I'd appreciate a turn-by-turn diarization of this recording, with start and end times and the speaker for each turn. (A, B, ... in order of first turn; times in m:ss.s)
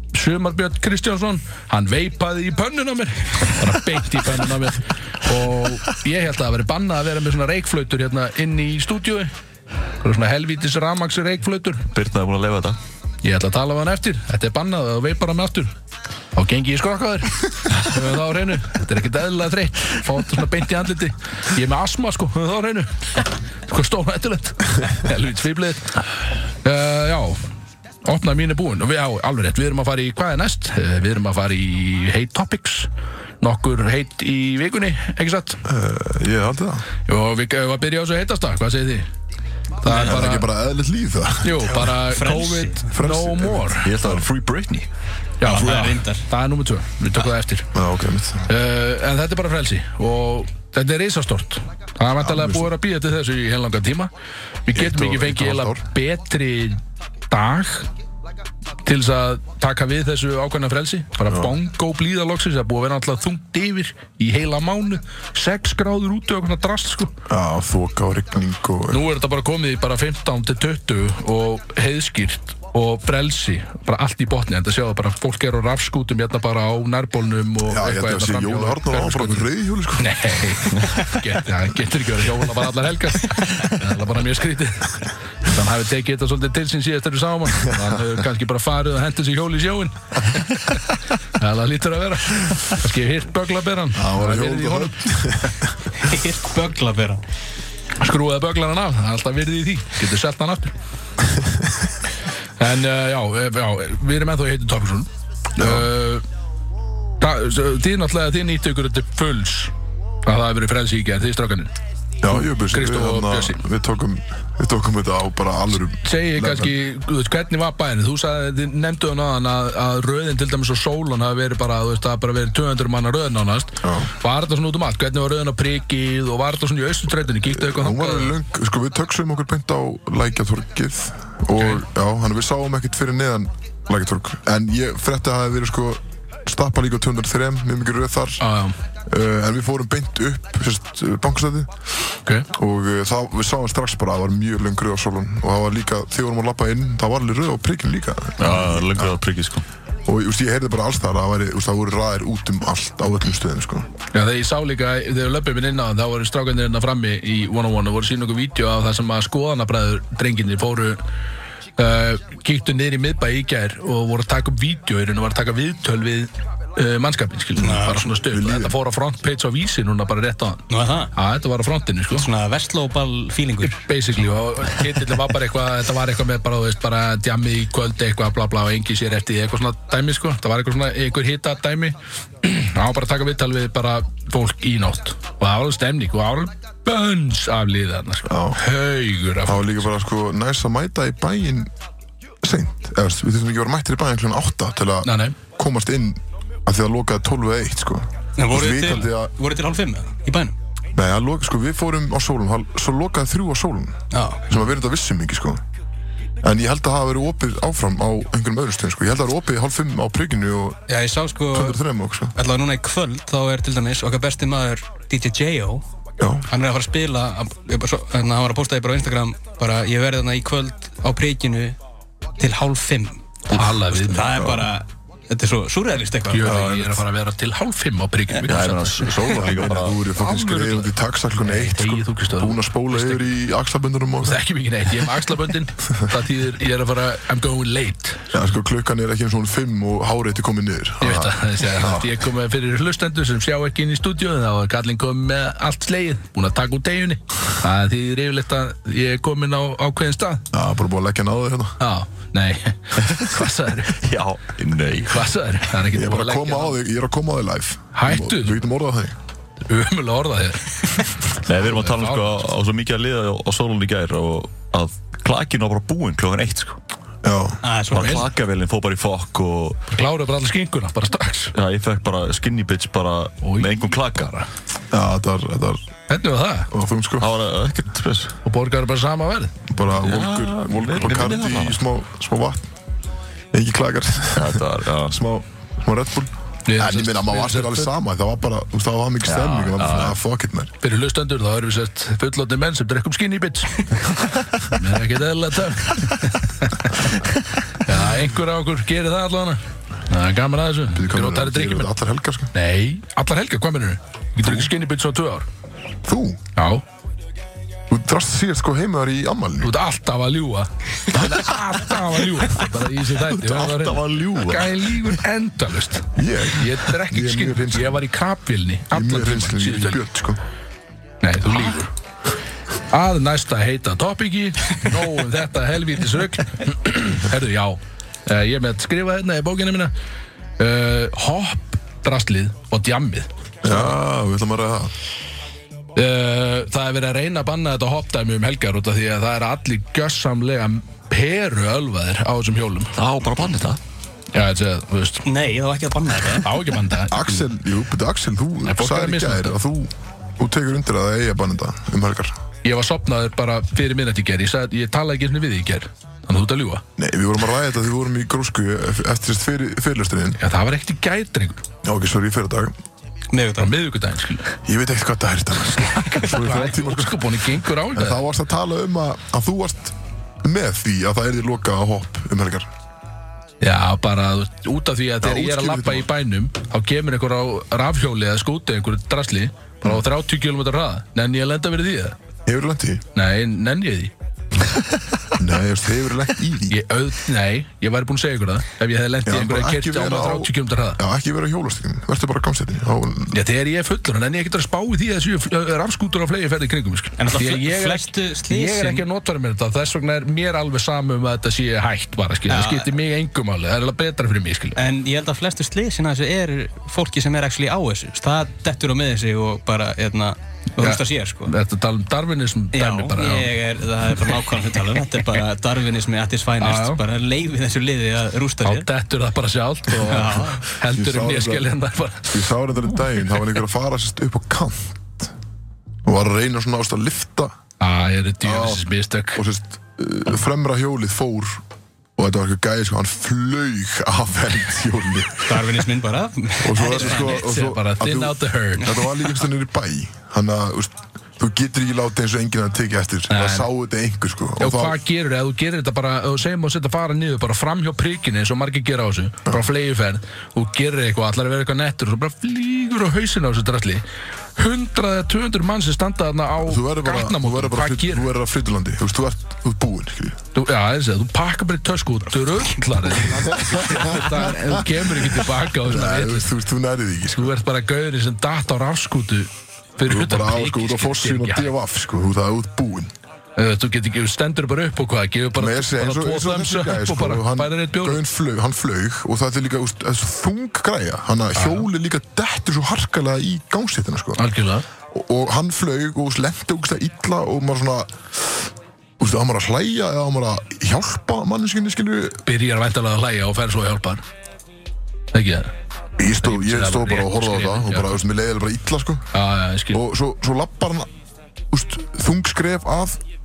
0:00.1-0:09.3 A
0:10.0-0:11.9 A
0:11.9-0:12.8 B
0:13.2-0:15.7 A
0:16.4-0:26.0 A
0:26.6-0:27.4 A
0:28.0-0:32.9 A
0:33.4-0:35.6 A
0:35.6-0:36.9 C
0:37.1-0:39.1 A
0:39.8-0:40.5 A
0:39.9-0:41.9 C
0:41.4-0:43.9 A
0:41.9-0:42.8 D
0:42.9-0:44.2 C
0:43.8-0:44.9 B
0:45.4-0:47.7 A
0:45.4-0:46.3 D
0:47.7-0:48.5 C
0:48.5-0:54.1 A
0:52.2-0:52.7 C
0:54.6-0:57.9 A
0:54.8-0:55.8 C
0:58.8-1:07.1 A
1:01.3-1:01.6 C
1:07.3-1:09.1 C
1:08.9-1:30.8 A
1:17.6-1:20.7 C
1:31.4-1:35.1 A
1:33.9-1:35.9 C
1:36.0-1:37.2 D
1:38.0-1:40.7 A
1:42.6-1:46.2 A
1:45.6-1:45.9 C
1:47.2-1:49.7 A
1:50.2-1:51.7 A
1:52.2-1:56.8 C
1:52.3-1:53.6 A
1:56.0-2:08.4 A
2:03.8-2:04.1 C
2:07.5-2:18.5 C
2:11.6-2:11.8 A
2:18.4-2:18.8 A
2:19.1-2:21.7 C
2:22.5-2:29.2 C
2:28.4-2:29.6 B
2:30.1-2:33.9 C
2:34.1-2:41.0 A
2:41.8-2:52.3 A
2:47.6-2:48.1 D
2:48.3-2:48.8 C
2:50.7-2:51.1 D
2:52.1-2:53.9 D
2:53.6-3:09.9 A
3:08.2-3:08.6 C
3:09.4-3:11.7 C
3:12.4-3:19.3 C
3:15.0-3:15.4 A
3:18.4-3:20.6 D
3:20.9-3:25.6 C
3:24.1-3:24.4 D
3:26.4-3:30.8 C
3:30.9-3:31.8 D
3:31.5-3:32.4 C
3:32.4-3:35.8 D
3:36.2-3:36.5 C
3:36.5-3:41.8 D
3:42.4-3:43.2 D
3:43.5-3:44.3 A
3:43.9-3:46.8 D
3:44.2-3:44.7 C
3:46.3-3:53.3 A
3:46.4-3:47.0 C
3:48.4-3:50.0 B
3:49.0-3:54.4 C
3:54.2-3:58.3 A
3:58.3-4:02.2 C
4:01.0-4:10.4 A
4:10.5-4:11.8 C
4:11.8-4:14.0 A
4:13.9-4:15.3 B
4:15.1-4:16.8 A
4:15.9-4:19.2 C
4:17.9-4:18.6 A
4:19.7-4:22.5 A
4:21.4-4:26.8 B
4:27.2-4:27.6 C
4:27.6-4:28.3 D
4:27.9-4:29.9 B
4:28.0-4:28.2 A
4:29.9-4:31.6 A
4:31.6-4:34.3 B
4:33.4-4:34.5 A
4:34.9-4:35.8 C
4:36.1-4:36.7 A
4:36.7-4:37.3 C
4:37.2-4:38.4 B
4:38.4-4:39.5 A
4:39.7-4:42.6 C
4:40.0-4:41.8 B
4:43.5-4:50.7 C
4:44.4-4:45.2 B
4:46.6-4:47.9 A
4:49.2-4:50.2 B
4:50.8-4:53.8 A
4:54.6-5:01.9 A
5:00.9-5:02.5 C
5:02.5-5:05.4 A
5:04.4-5:04.7 C
5:06.0-5:06.4 C
5:06.6-5:06.8 A
5:07.9-5:09.7 C
5:09.6-5:20.0 A
5:13.2-5:15.0 B
5:16.1-5:18.0 C
5:18.9-5:20.4 C
5:21.2-5:21.9 A
5:22.9-5:29.9 A
5:30.6-5:33.8 A
5:33.6-5:34.9 C
5:35.9-5:42.9 A
5:43.0-5:43.8 B
5:44.3-5:45.3 A
5:45.2-5:46.6 D
5:46.3-5:47.4 A
5:47.1-5:52.4 C
5:48.6-5:49.6 A
5:52.6-5:56.8 A
5:57.0-6:00.4 C
6:00.4-6:01.6 A
6:01.8-6:02.7 C
6:03.3-6:03.7 D
6:03.6-6:04.5 A
6:04.6-6:07.4 C
6:06.0-6:08.2 A
6:07.9-6:12.7 C
6:13.6-6:22.2 A
6:15.2-6:16.1 C
6:22.4-6:23.0 C
6:23.1-6:24.1 A
6:25.4-6:26.8 C
6:26.7-6:31.0 A
6:29.3-6:33.4 C
6:33.3-6:44.8 A
6:37.2-6:39.0 D
6:42.5-6:42.9 D
6:44.8-6:51.5 D
6:50.8-6:53.5 A
6:52.7-6:58.9 D
6:56.6-6:57.0 A
6:58.6-7:02.5 A
6:59.9-7:01.7 C
6:59.9-7:00.6 D
7:02.3-7:05.3 C
7:06.0-7:07.6 C
7:07.8-7:09.4 A
7:08.4-7:11.6 C
7:12.2-7:15.7 C
7:15.4-7:17.4 D
7:16.6-7:25.0 C
7:16.8-7:18.9 A
7:23.3-7:23.7 A
7:24.6-7:34.0 A
7:34.6-7:38.3 A
7:36.6-7:40.4 C
7:40.5-7:46.5 A
7:43.2-7:47.6 C
7:47.4-7:51.7 A
7:50.0-7:53.1 C
7:53.6-7:58.2 A
7:55.6-8:04.4 C
8:01.6-8:01.9 A
8:04.4-8:04.8 A
8:05.1-8:08.6 C
8:09.2-8:12.4 C
8:12.4-8:14.2 A
8:15.3-8:15.7 A
8:16.2-8:19.3 C
8:16.4-8:18.2 A
8:19.3-8:20.0 A
8:19.9-8:21.1 C
8:21.7-8:23.2 C